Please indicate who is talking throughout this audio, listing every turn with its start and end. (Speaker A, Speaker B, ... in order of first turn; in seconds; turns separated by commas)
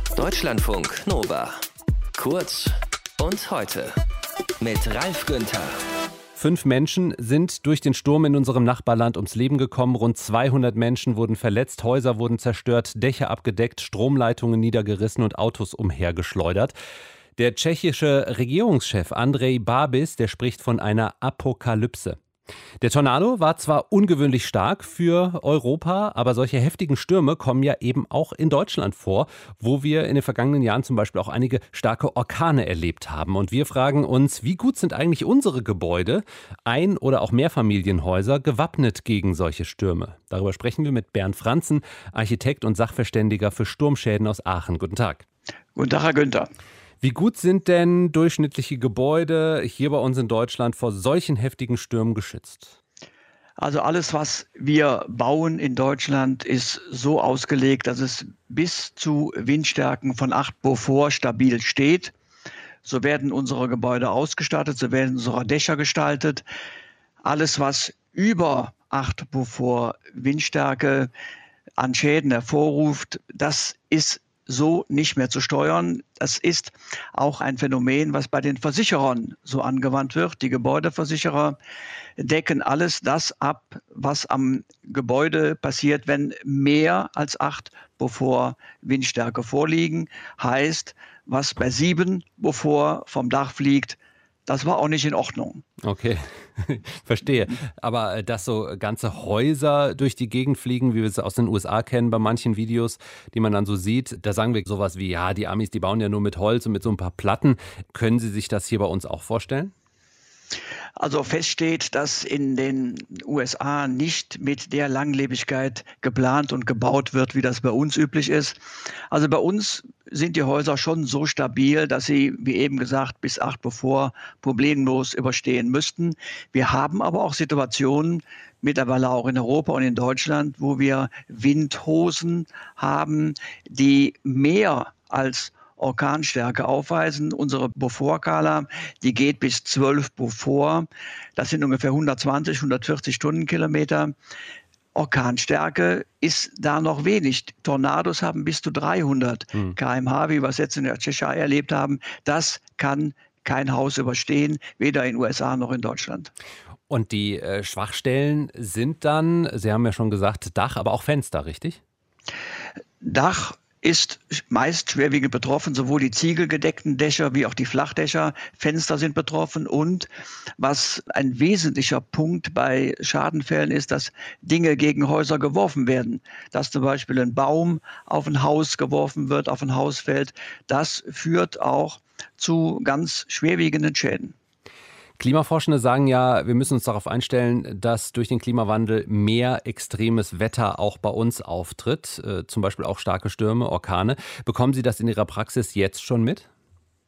Speaker A: 0.1-1.6, Speaker A: 2.2-3.9, Speaker A: 4.6-5.8, Speaker B: 6.3-16.7, Speaker B: 17.4-22.2, Speaker B: 22.8-45.2, Speaker C: 45.7-46.5, Speaker B: 47.0-52.8, Speaker C: 53.6-62.1, Speaker C: 62.8-66.4, Speaker C: 67.2-71.1, Speaker C: 71.8-81.6, Speaker C: 82.2-95.6, Speaker B: 95.8-109.7, Speaker C: 111.0-118.6, Speaker C: 119.1-144.1, Speaker C: 144.9-156.3, Speaker B: 156.9-161.8, Speaker C: 163.0-170.1, Speaker C: 170.6-184.3, Speaker B: 185.2-196.5